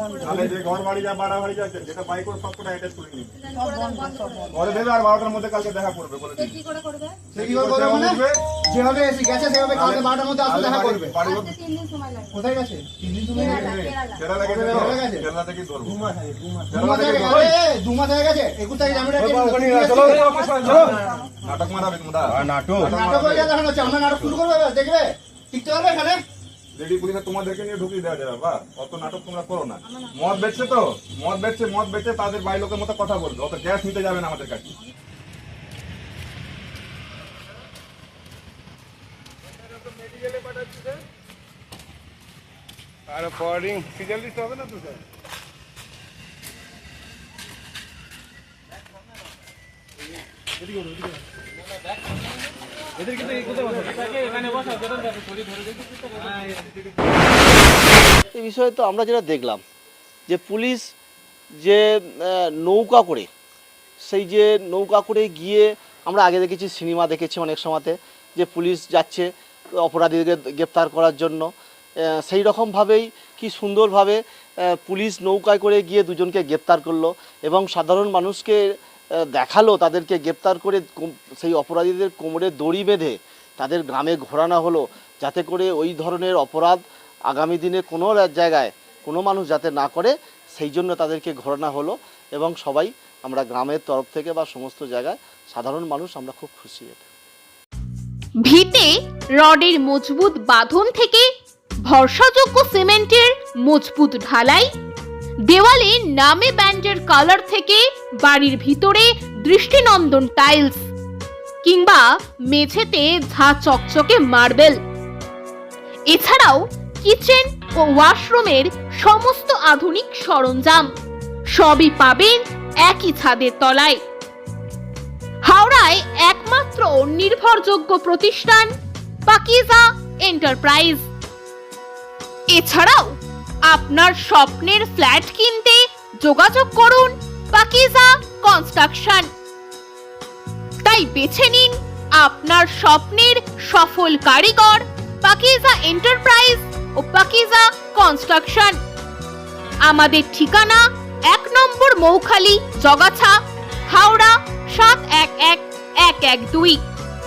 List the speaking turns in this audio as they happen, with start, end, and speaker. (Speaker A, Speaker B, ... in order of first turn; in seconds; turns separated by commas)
Speaker A: 0.2-3.3, Speaker B: 3.5-4.6, Speaker A: 4.5-6.6, Speaker B: 6.7-7.2, Speaker C: 7.3-11.2, Speaker A: 7.3-8.4, Speaker A: 9.7-11.6, Speaker B: 11.4-12.3, Speaker C: 12.3-13.8, Speaker A: 13.4-16.0, Speaker B: 13.6-13.9, Speaker C: 14.4-15.2, Speaker D: 16.1-16.6, Speaker A: 16.7-17.6, Speaker C: 16.7-20.9, Speaker D: 19.2-20.9, Speaker A: 19.9-23.5, Speaker D: 22.3-22.9, Speaker C: 22.8-26.2, Speaker A: 26.7-34.7, Speaker D: 43.1-44.9, Speaker D: 53.5-53.9, Speaker E: 58.1-59.6, Speaker E: 60.3-60.9, Speaker E: 61.6-63.3, Speaker E: 64.0-69.3, Speaker E: 69.8-71.5, Speaker E: 72.0-97.0, Speaker F: 98.4-101.3, Speaker F: 101.8-104.7, Speaker F: 105.5-110.9, Speaker F: 111.6-114.8, Speaker F: 116.1-120.9, Speaker F: 121.5-124.0, Speaker F: 125.4-128.7, Speaker F: 129.3-131.1, Speaker F: 132.5-139.3, Speaker F: 140.8-148.8, Speaker F: 149.8-156.8